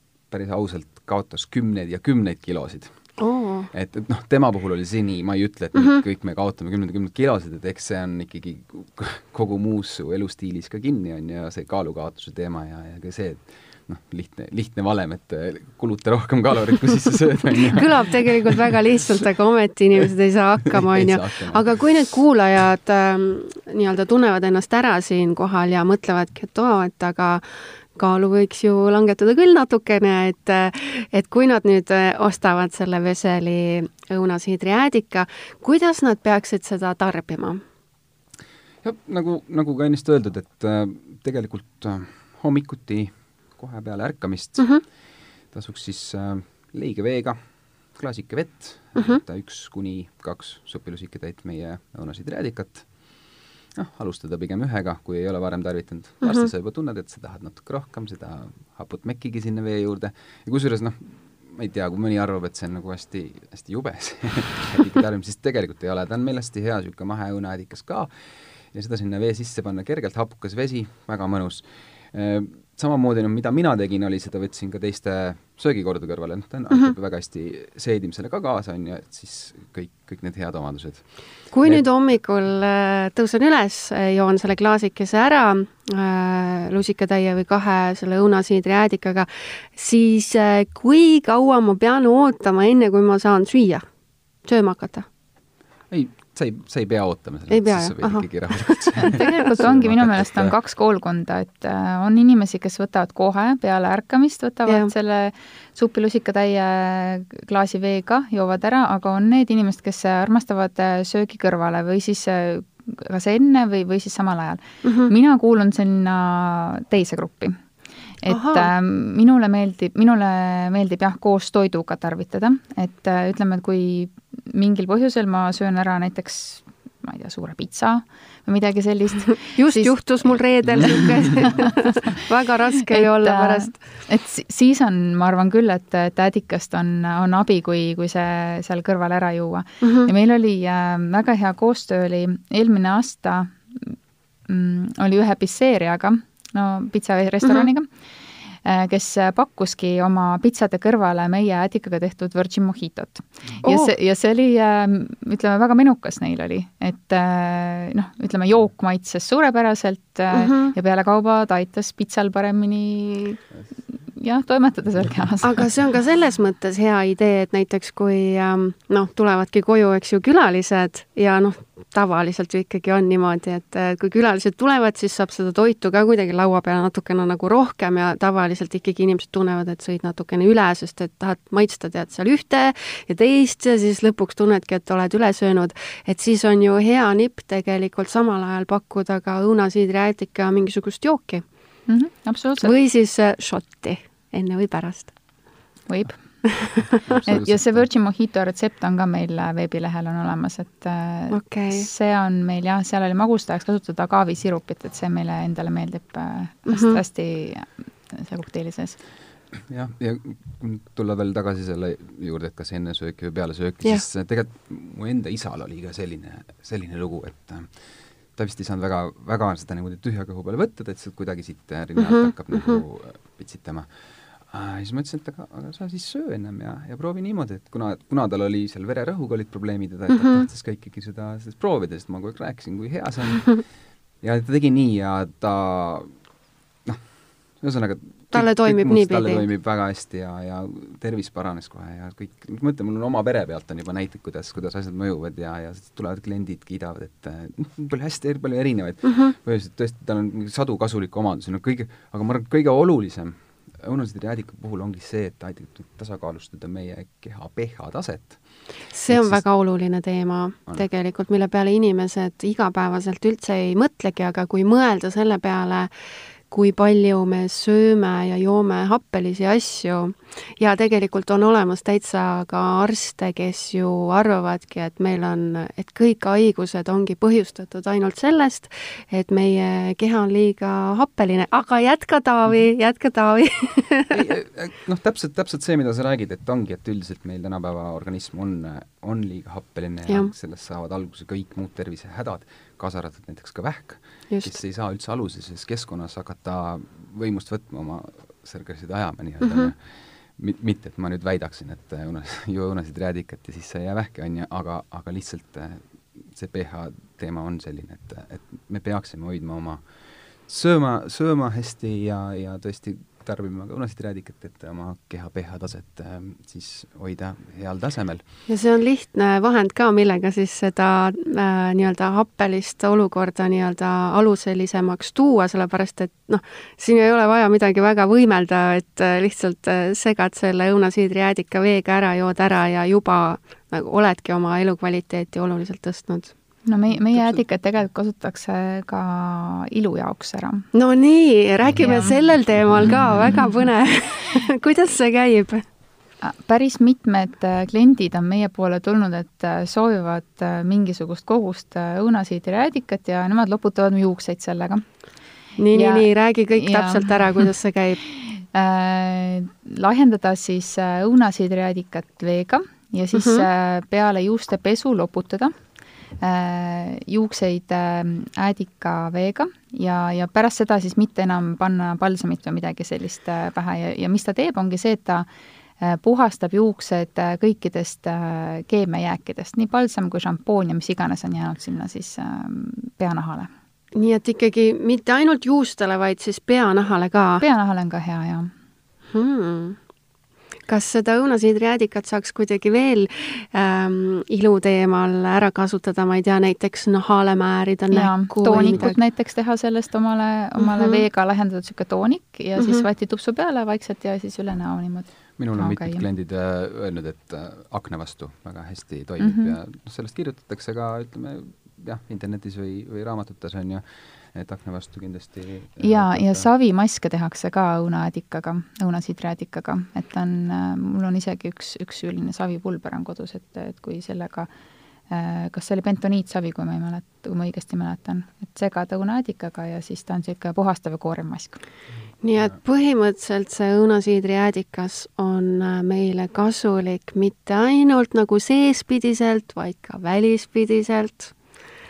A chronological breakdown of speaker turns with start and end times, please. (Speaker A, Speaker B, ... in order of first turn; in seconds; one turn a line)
Speaker A: 0.3-3.2
Speaker B: 3.2-3.7
Speaker A: 3.7-18.6
Speaker B: 17.7-27.4
Speaker A: 20.7-22.0
Speaker B: 27.9-37.6
Speaker A: 38.8-44.8
Speaker A: 45.5-47.4
Speaker A: 47.9-52.9
Speaker A: 53.7-68.1
Speaker B: 56.2-56.5
Speaker A: 68.7-81.1
Speaker B: 81.5-93.8
Speaker B: 94.4-95.0
Speaker A: 95.9-100.5
Speaker B: 97.5-99.2
Speaker C: 99.0-117.6
Speaker B: 114.8-115.1
Speaker C: 118.2-131.8
Speaker B: 118.3-118.7
Speaker B: 129.6-133.8
Speaker C: 132.9-144.0
Speaker B: 139.8-140.1
Speaker C: 144.5-147.9
Speaker C: 148.6-163.4
Speaker B: 153.6-153.9
Speaker B: 160.3-160.7
Speaker C: 164.1-165.7
Speaker B: 165.4-191.4
Speaker C: 191.9-192.7
Speaker B: 192.6-195.1
Speaker C: 195.9-196.7
Speaker A: 196.9-197.8
Speaker C: 197.2-209.0
Speaker B: 201.3-201.9
Speaker B: 206.7-207.0
Speaker A: 209.7-217.8
Speaker A: 218.3-233.6
Speaker B: 222.0-222.8
Speaker A: 234.2-236.1
Speaker A: 237.6-258.4
Speaker B: 238.3-239.4
Speaker B: 249.1-249.3
Speaker B: 258.9-265.9
Speaker A: 259.1-259.4
Speaker B: 266.5-284.1
Speaker A: 284.1-309.8
Speaker B: 294.3-294.6
Speaker B: 299.4-299.7
Speaker A: 310.4-318.2
Speaker B: 318.5-336.3
Speaker C: 336.6-340.7
Speaker A: 337.1-337.4
Speaker B: 340.7-345.6
Speaker C: 341.8-342.1
Speaker C: 346.2-354.8
Speaker B: 355.6-358.0
Speaker C: 355.7-357.5
Speaker C: 358.2-365.5
Speaker B: 363.2-363.5
Speaker C: 366.2-375.2
Speaker C: 375.8-383.5
Speaker B: 383.9-387.4
Speaker C: 387.4-388.5
Speaker B: 389.1-389.8
Speaker B: 390.6-398.9
Speaker C: 397.9-406.0
Speaker B: 400.6-401.0
Speaker B: 402.6-402.8
Speaker A: 405.4-416.5
Speaker C: 409.2-409.6
Speaker C: 415.8-424.5
Speaker C: 425.1-431.6
Speaker B: 432.2-441.3